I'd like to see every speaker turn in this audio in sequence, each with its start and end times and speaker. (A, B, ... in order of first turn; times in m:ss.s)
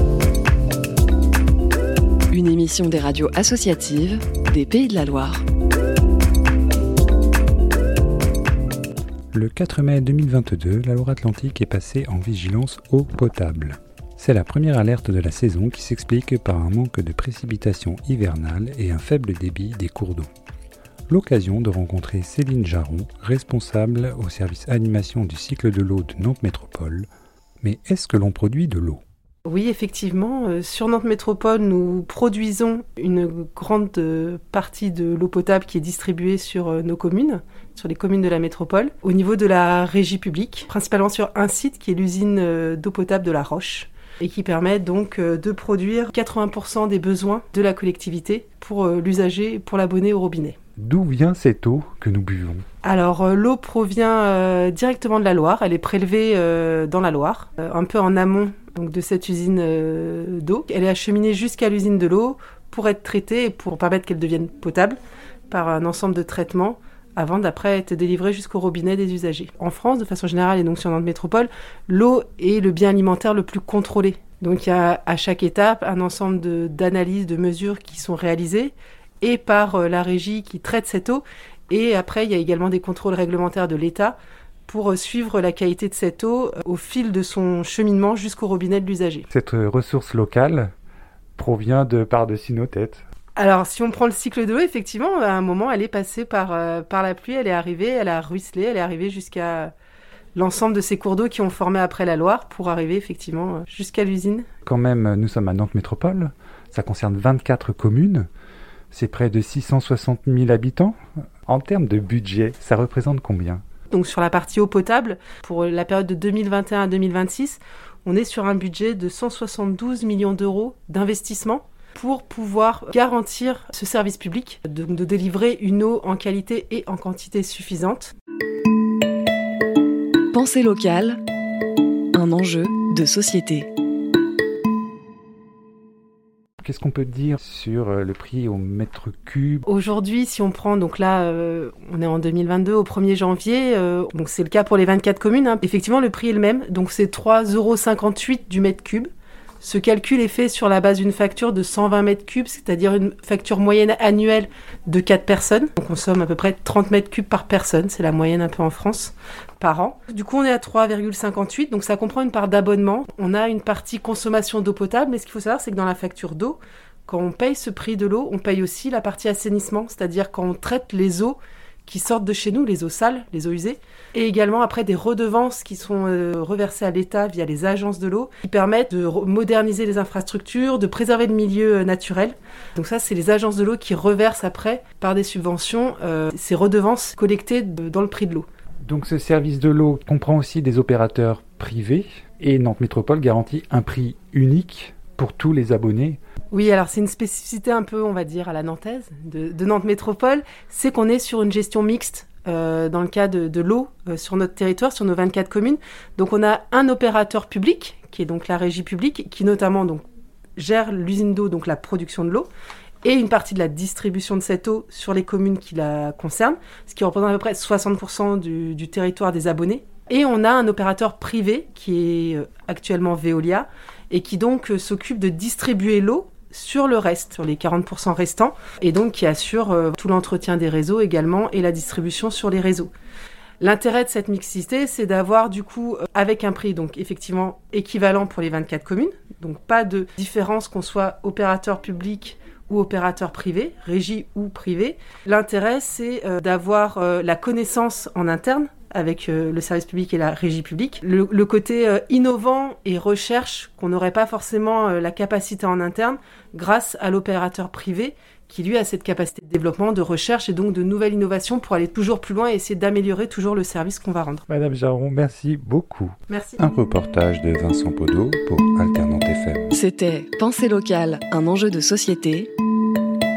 0:02.3-0:05.4 A
0:09.3-0:20.3 B
0:21.1-0:27.1 B
0:27.6-0:29.0 B
0:29.4-0:50.6 C
0:50.8-0:52.6 B
0:52.8-1:05.0 C
1:05.5-1:24.1 C
1:24.7-1:29.3 C
1:29.3-1:30.7 B
1:31.4-1:33.0 B
1:33.4-1:39.7 C
1:40.4-1:44.4 C
1:44.6-1:48.3 B
1:48.9-1:50.9 B
1:51.5-1:53.6 B
1:53.9-2:08.1 C
2:10.3-2:11.2 A
2:12.1-2:13.7 A
2:16.6-2:19.6 B
2:19.6-2:29.1 C
2:29.6-3:08.4 C
3:08.8-3:16.2 B
3:16.5-3:30.0 C
3:30.6-3:32.5 C
3:33.0-3:52.9 C
3:53.6-4:24.4 C
4:24.5-4:29.7 B
4:26.3-4:26.6 C
4:29.7-4:32.5 A